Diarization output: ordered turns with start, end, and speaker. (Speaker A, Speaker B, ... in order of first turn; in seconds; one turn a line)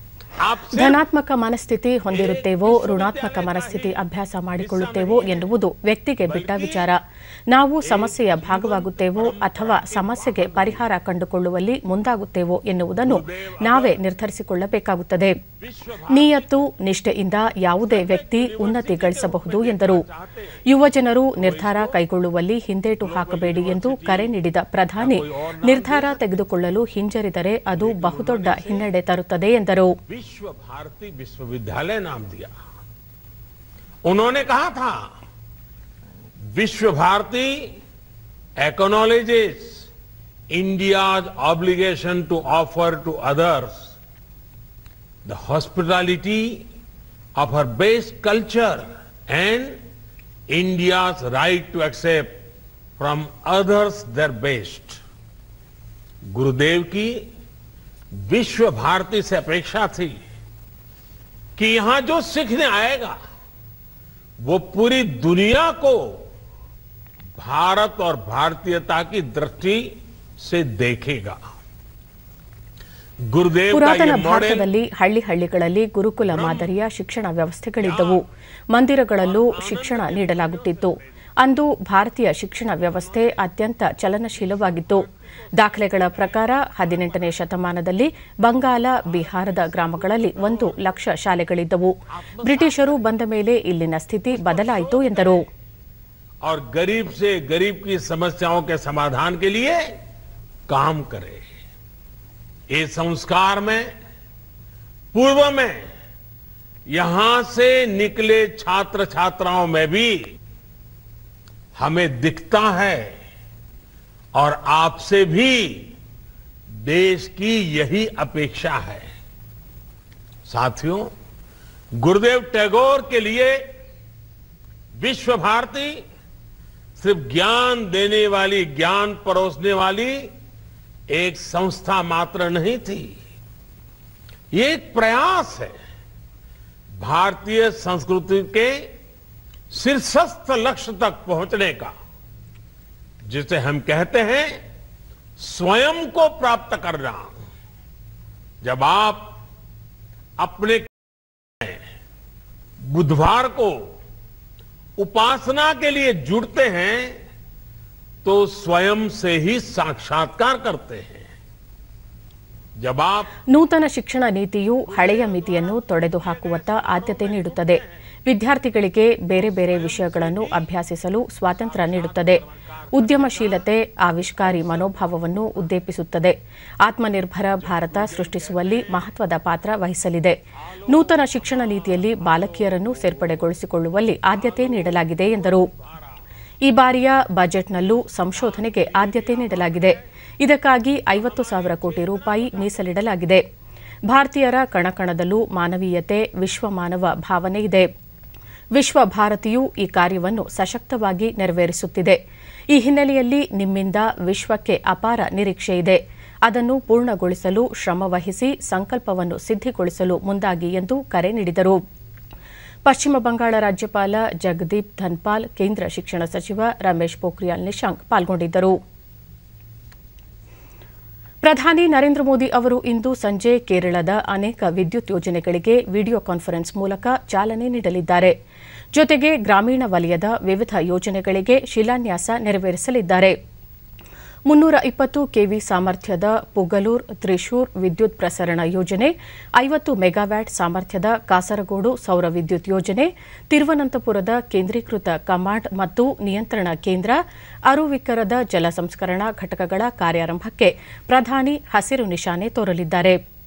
Speaker A: 0.4-1.0
Speaker B: 0.7-15.3
Speaker A: 2.1-4.0
Speaker A: 4.6-5.5
Speaker A: 6.2-6.9
Speaker A: 7.8-10.8
Speaker A: 13.0-14.0
Speaker A: 15.6-16.7
Speaker B: 16.1-20.0
Speaker A: 17.8-20.6
Speaker B: 20.6-29.9
Speaker A: 21.4-22.0
Speaker A: 23.0-24.3
Speaker A: 25.0-26.2
Speaker A: 27.7-28.9
Speaker A: 30.1-32.5
Speaker A: 34.0-35.0
Speaker A: 36.5-37.8
Speaker A: 38.6-39.9
Speaker A: 40.5-43.9
Speaker A: 45.2-46.6
Speaker A: 47.4-49.8
Speaker A: 50.5-52.4
Speaker A: 53.0-55.0
Speaker A: 56.3-57.3
Speaker A: 58.1-60.2
Speaker A: 61.6-63.2
Speaker A: 64.4-66.2
Speaker A: 67.4-71.4
Speaker A: 73.3-74.7
Speaker B: 73.7-95.4
Speaker A: 76.2-76.7
Speaker A: 77.8-78.2
Speaker A: 79.2-81.1
Speaker A: 82.9-83.4
Speaker A: 84.3-87.5
Speaker A: 89.0-90.8
Speaker A: 92.1-93.1
Speaker A: 94.3-95.4
Speaker A: 96.4-99.9
Speaker A: 100.7-101.4
Speaker A: 102.7-103.9
Speaker A: 105.1-105.9
Speaker A: 106.9-110.3
Speaker A: 111.8-113.1
Speaker A: 114.3-115.9
Speaker A: 116.8-119.1
Speaker A: 120.5-121.1
Speaker A: 121.9-123.6
Speaker A: 125.0-126.0
Speaker A: 127.0-130.3
Speaker A: 131.1-133.2
Speaker A: 134.5-135.7
Speaker A: 137.0-138.9
Speaker A: 139.7-141.9
Speaker A: 143.2-144.6
Speaker A: 145.4-147.4
Speaker A: 148.6-149.4
Speaker A: 150.4-150.9
Speaker A: 151.6-151.8
Speaker A: 152.8-153.9
Speaker A: 155.0-157.2
Speaker A: 158.2-161.3
Speaker A: 162.8-163.3
Speaker B: 163.5-172.4
Speaker A: 164.9-167.9
Speaker A: 169.4-170.7
Speaker A: 171.5-173.7
Speaker B: 172.9-185.7
Speaker A: 174.3-175.7
Speaker A: 177.6-179.1
Speaker A: 180.7-183.5
Speaker A: 184.3-186.2
Speaker B: 186.6-193.4
Speaker A: 188.3-190.0
Speaker A: 191.1-192.9
Speaker B: 194.1-197.9
Speaker B: 198.7-202.2
Speaker B: 202.7-211.8
Speaker B: 212.8-218.7
Speaker B: 221.4-228.3
Speaker B: 228.9-233.3
Speaker B: 234.5-247.2
Speaker B: 247.7-253.2